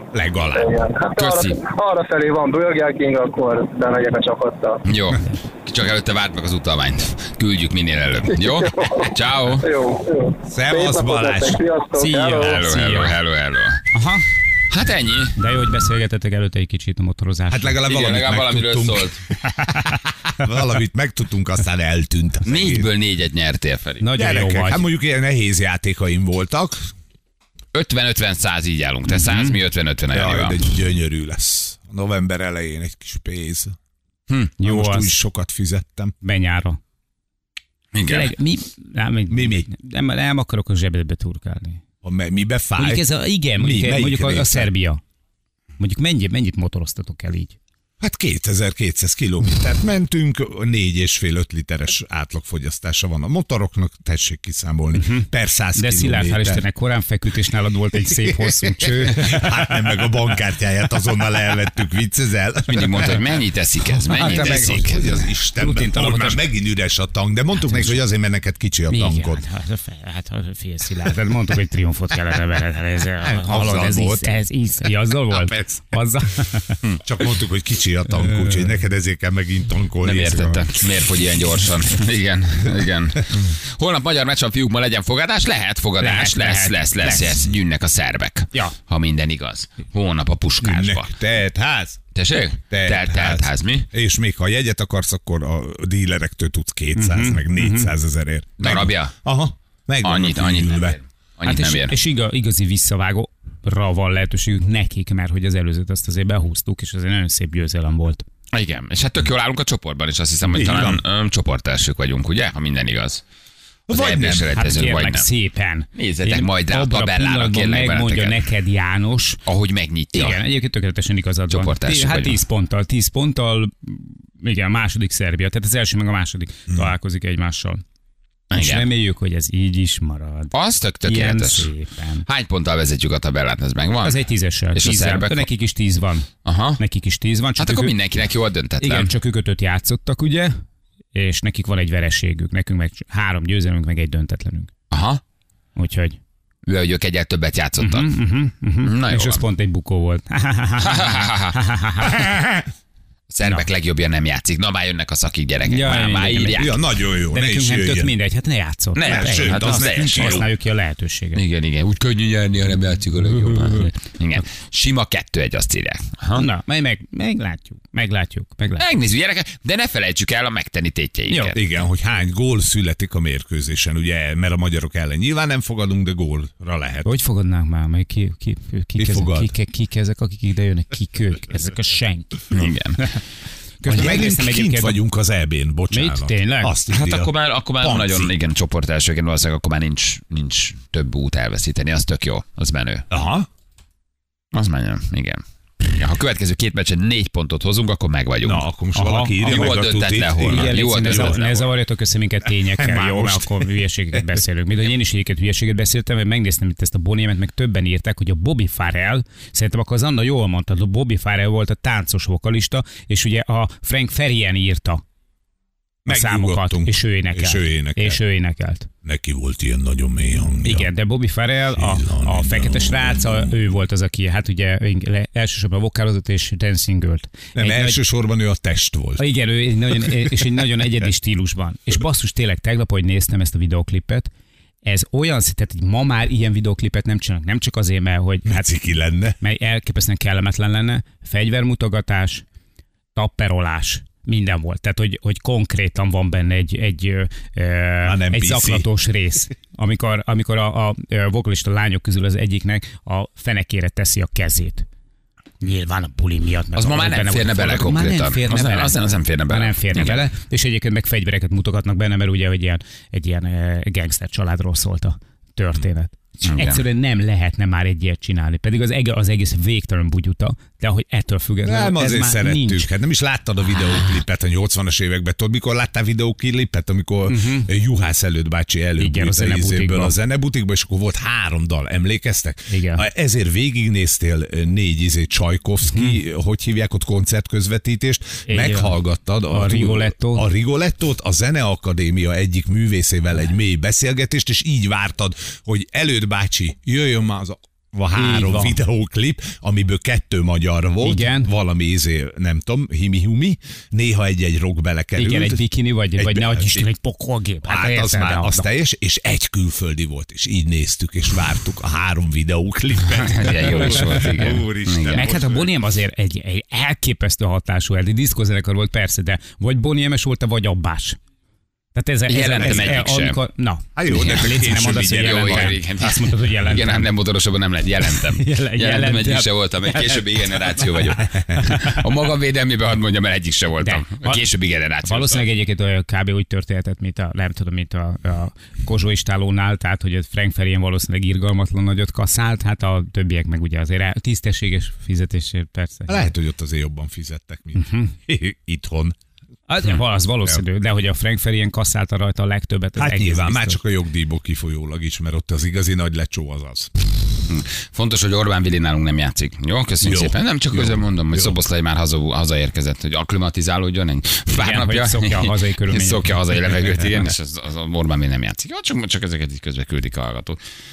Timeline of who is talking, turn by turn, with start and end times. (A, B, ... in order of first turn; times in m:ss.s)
0:00.1-0:00.7 A
0:00.5-0:04.8 B
0:01.2-0:01.6 C
0:04.8-0:09.7 C
0:08.4-0:12.6 B
0:10.5-0:11.6 A
0:12.0-0:13.1 D
0:12.3-0:13.8 C
0:13.9-0:14.2 D
0:14.7-0:15.4 C
0:15.4-0:17.8 D
0:17.5-0:19.3 A
0:17.8-0:19.2 C
0:19.8-0:22.9 A
0:22.4-0:24.1 C
0:24.0-0:24.8 D
0:24.2-0:26.9 A
0:27.7-0:30.6 C
0:29.1-0:29.5 D
0:30.1-0:33.7 A
0:34.6-0:35.1 D
0:34.6-0:36.1 A
0:36.2-0:36.8 D
0:37.9-0:38.3 C
0:38.0-0:41.8 D
0:39.3-0:39.7 A
0:42.0-0:44.7 A
0:42.8-0:45.0 D
0:45.8-0:47.6 D
0:48.0-0:56.6 A
0:54.9-0:59.7 D
0:58.0-1:03.2 A
1:02.7-1:05.0 C
1:03.8-1:09.4 A
1:04.1-1:06.4 D
1:07.6-1:08.0 D
1:08.9-1:16.8 D
1:13.2-1:14.4 A
1:15.3-1:16.0 A
1:17.0-1:20.8 A
1:20.0-1:31.1 C
1:26.0-1:27.4 D
1:30.6-1:32.0 A
1:32.1-1:33.9 C
1:32.7-1:41.0 A
1:36.9-1:37.9 D
1:38.6-1:39.1 C
1:40.0-1:41.9 C
1:41.4-1:48.2 D
1:48.5-1:53.2 C
1:50.5-1:51.0 A
1:53.9-1:54.6 A
1:53.9-1:55.3 C
1:54.6-1:59.4 D
1:56.0-1:58.5 C
1:59.4-2:00.4 C
2:00.1-2:07.8 D
2:01.5-2:02.4 C
2:08.5-2:08.9 C
2:08.5-2:12.2 D
2:10.5-2:11.7 C
2:12.2-2:14.2 C
2:14.0-2:16.3 D
2:14.7-2:15.5 C
2:16.4-2:16.8 C
2:16.8-2:17.9 D
2:17.6-2:19.1 C
2:18.8-2:20.5 D
2:21.1-2:24.7 D
2:24.9-2:25.2 C
2:25.8-2:26.2 D
2:26.6-2:28.1 C
2:27.8-2:32.3 D
2:28.8-2:29.4 C
2:30.8-2:31.6 C
2:32.1-2:32.7 A
2:33.3-2:36.7 C
2:35.7-2:36.7 D
2:36.4-2:38.1 A
2:37.3-2:41.4 D
2:39.0-2:40.4 C
2:39.0-2:40.5 A
2:41.3-2:46.4 C
2:43.6-2:44.4 D
2:46.3-2:48.8 D
2:48.8-2:51.6 C
2:51.3-2:51.5 D
2:51.5-2:57.1 A
2:57.0-3:02.4 D
2:59.0-2:59.5 A
3:02.5-3:03.0 C
3:03.8-3:05.0 D
3:03.8-3:08.3 A
3:05.9-3:06.7 D
3:06.9-3:13.1 C
3:13.1-3:13.5 A
3:14.5-3:18.6 C
3:18.4-3:21.4 A
3:18.9-3:19.8 D
3:19.4-3:21.7 C
3:20.4-3:35.0 D
3:22.6-3:23.7 A
3:36.0-3:38.2 A
3:36.0-3:38.9 D
3:39.0-3:40.9 A
3:40.6-3:48.0 D
3:41.7-3:43.5 A
3:47.5-3:49.2 A
3:49.2-3:54.3 D
3:50.1-3:50.3 A
3:54.8-3:58.8 D
3:58.4-3:59.4 A
3:59.4-4:02.4 D
4:03.1-4:14.8 D
4:08.0-4:08.8 A
4:15.6-4:19.0 D
4:16.7-4:20.2 C
4:19.5-4:32.9 D
4:26.4-4:26.8 C
4:31.6-5:05.6 A
4:37.3-4:37.7 D
4:39.0-4:40.1 D
4:42.7-4:43.0 D
4:45.9-4:46.2 D
4:48.5-4:49.0 D
4:49.5-4:50.4 D
4:58.1-4:58.8 D
5:01.0-5:01.5 D
5:05.2-5:08.7 D
5:06.2-5:06.9 A
5:07.6-5:15.7 A
5:13.1-5:15.3 C
5:13.9-5:14.2 D
5:15.1-5:21.2 D
5:21.9-5:27.1 D
5:22.3-5:23.4 C
5:24.0-5:25.8 A
5:25.0-5:35.4 C
5:28.4-5:30.2 D
5:31.6-5:32.0 D
5:33.8-5:34.5 D
5:35.0-5:46.2 D
5:46.1-5:49.2 A
5:47.7-5:48.1 D
5:49.7-5:53.8 D
5:53.0-5:56.9 A
5:57.5-6:10.6 C
6:00.0-6:01.6 A
6:04.5-6:06.3 D